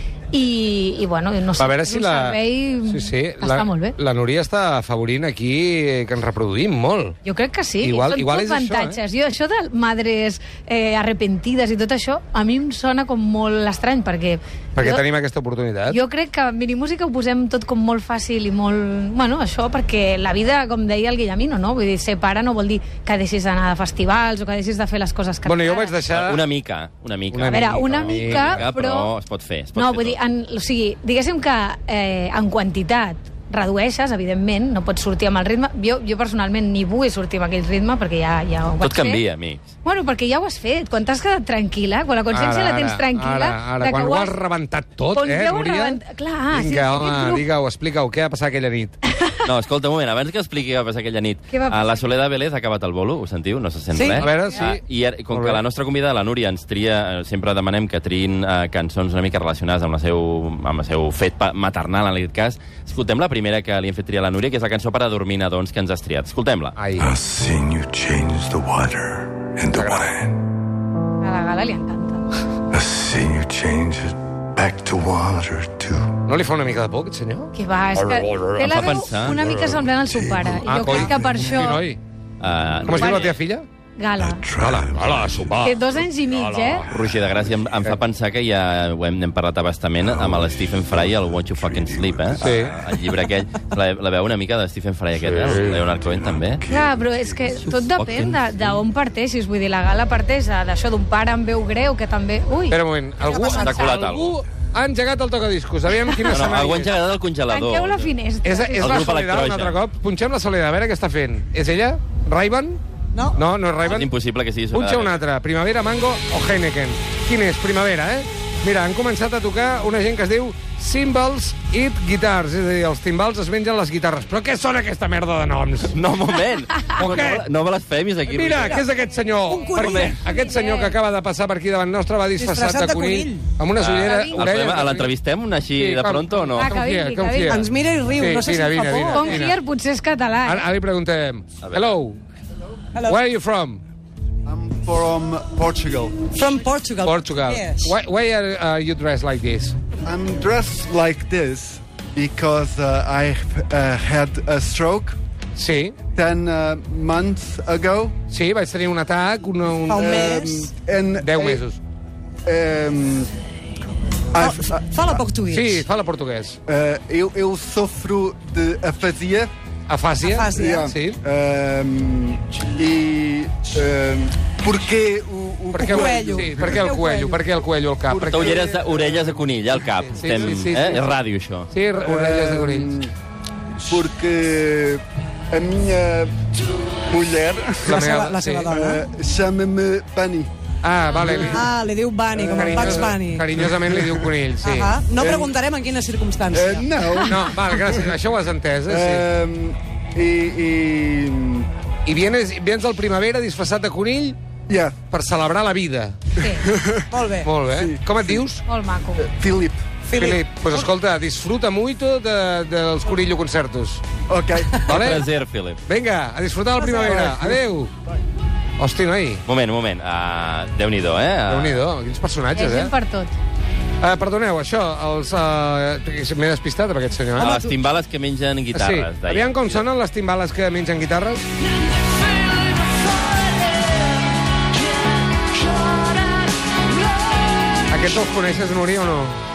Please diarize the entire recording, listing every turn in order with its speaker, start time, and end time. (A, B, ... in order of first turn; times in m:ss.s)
0:00.3-0:04.0 A
0:01.6-0:07.2 B
0:07.2-0:15.0 A
0:07.8-0:09.0 B
0:14.8-0:16.0 B
0:15.9-0:26.0 A
0:25.4-0:26.4 B
0:26.1-0:30.2 C
0:27.3-0:28.6 B
0:27.5-0:29.1 A
0:29.7-0:39.2 A
0:38.8-0:39.6 C
0:39.8-0:44.3 A
0:42.3-0:46.0 B
0:45.1-0:47.4 A
0:46.5-0:49.0 B
0:49.4-1:06.8 C
0:51.5-0:52.0 A
0:53.9-0:54.3 D
0:54.2-0:54.8 B
0:55.3-0:55.6 B
1:06.8-1:07.1 B
1:07.0-1:10.4 E
1:09.7-1:10.1 B
1:11.2-1:12.2 A
1:12.7-1:16.2 E
1:16.3-1:18.8 B
1:17.5-1:21.8 A
1:18.6-1:19.5 C
1:19.7-1:21.3 E
1:20.6-1:22.0 B
1:22.4-1:23.4 C
1:22.8-1:23.6 B
1:23.0-1:23.3 A
1:24.0-1:24.4 A
1:24.2-1:25.7 E
1:24.6-1:26.9 B
1:25.6-1:26.8 A
1:26.9-1:36.6 C
1:30.0-1:33.0 E
1:32.4-1:32.7 B
1:35.3-1:37.7 E
1:35.3-1:35.8 B
1:36.6-1:42.8 A
1:37.7-1:38.8 C
1:42.7-1:46.9 B
1:43.2-1:43.9 D
1:43.5-1:44.4 C
1:46.3-1:48.1 C
1:47.5-1:49.1 A
1:48.4-1:52.8 B
1:48.8-1:49.8 C
1:53.3-1:54.1 B
1:53.8-1:55.2 C
1:54.7-2:06.0 B
2:05.9-2:08.8 C
2:07.0-2:07.4 B
2:08.3-2:15.1 B
2:08.6-2:08.8 D
2:09.5-2:10.2 D
2:09.8-2:11.0 A
2:12.4-2:13.5 D
2:13.8-2:16.7 C
2:14.0-2:14.5 A
2:15.8-2:19.6 B
2:16.6-2:17.6 A
2:17.5-2:19.4 D
2:19.1-2:20.7 A
2:20.4-2:22.2 B
2:21.6-2:21.9 C
2:23.0-2:23.8 B
2:24.4-2:26.3 F
2:26.3-2:27.9 D
2:27.0-2:29.8 B
2:30.0-2:35.2 F
2:35.6-2:35.9 B
2:36.1-2:38.2 F
2:38.3-2:40.4 B
2:39.9-2:40.7 D
2:39.9-2:41.6 F
2:41.2-2:41.8 B
2:42.4-2:43.3 F
2:44.3-2:45.2 F
2:44.4-2:45.8 D
2:45.5-2:46.6 B
2:46.7-2:49.5 F
2:49.9-2:51.2 B
2:50.2-2:50.8 D
2:50.5-2:57.0 F
2:55.7-2:58.7 B
2:55.8-2:57.4 D
2:58.0-2:59.3 F
2:58.2-3:01.7 C
3:00.0-3:01.0 B
3:01.7-3:02.9 B
3:02.0-3:03.1 F
3:03.8-3:06.5 F
3:07.0-3:10.5 F
3:07.8-3:08.7 B
3:07.9-3:09.0 D
3:10.8-3:11.7 B
3:11.1-3:11.6 F
3:11.2-3:13.5 D
3:12.3-3:14.3 F
3:12.6-3:15.0 B
3:14.6-3:17.3 D
3:15.2-3:15.4 F
3:16.5-3:18.2 F
3:17.3-3:19.2 B
3:18.9-3:21.7 F
3:22.0-3:24.4 B
3:24.7-3:25.0 F
3:25.1-3:26.2 B
3:26.4-3:26.7 A
3:26.5-3:27.1 F
3:27.1-3:27.5 D
3:27.4-3:28.6 B
3:27.7-3:28.4 F
3:28.6-3:29.3 A
3:29.2-3:29.9 F
3:30.1-3:30.8 D
3:30.2-3:34.0 B
3:34.3-3:35.0 F
3:34.8-3:35.2 B
3:34.9-3:35.8 C
3:35.9-3:37.9 B
3:36.8-3:37.1 D
3:36.8-3:37.6 F
3:38.8-3:39.4 B
3:39.5-3:41.8 C
3:41.5-3:42.9 B
3:42.5-3:43.3 A
3:44.0-3:47.6 B
3:47.4-3:49.8 C
3:48.7-3:51.4 B
3:57.9-3:59.4 B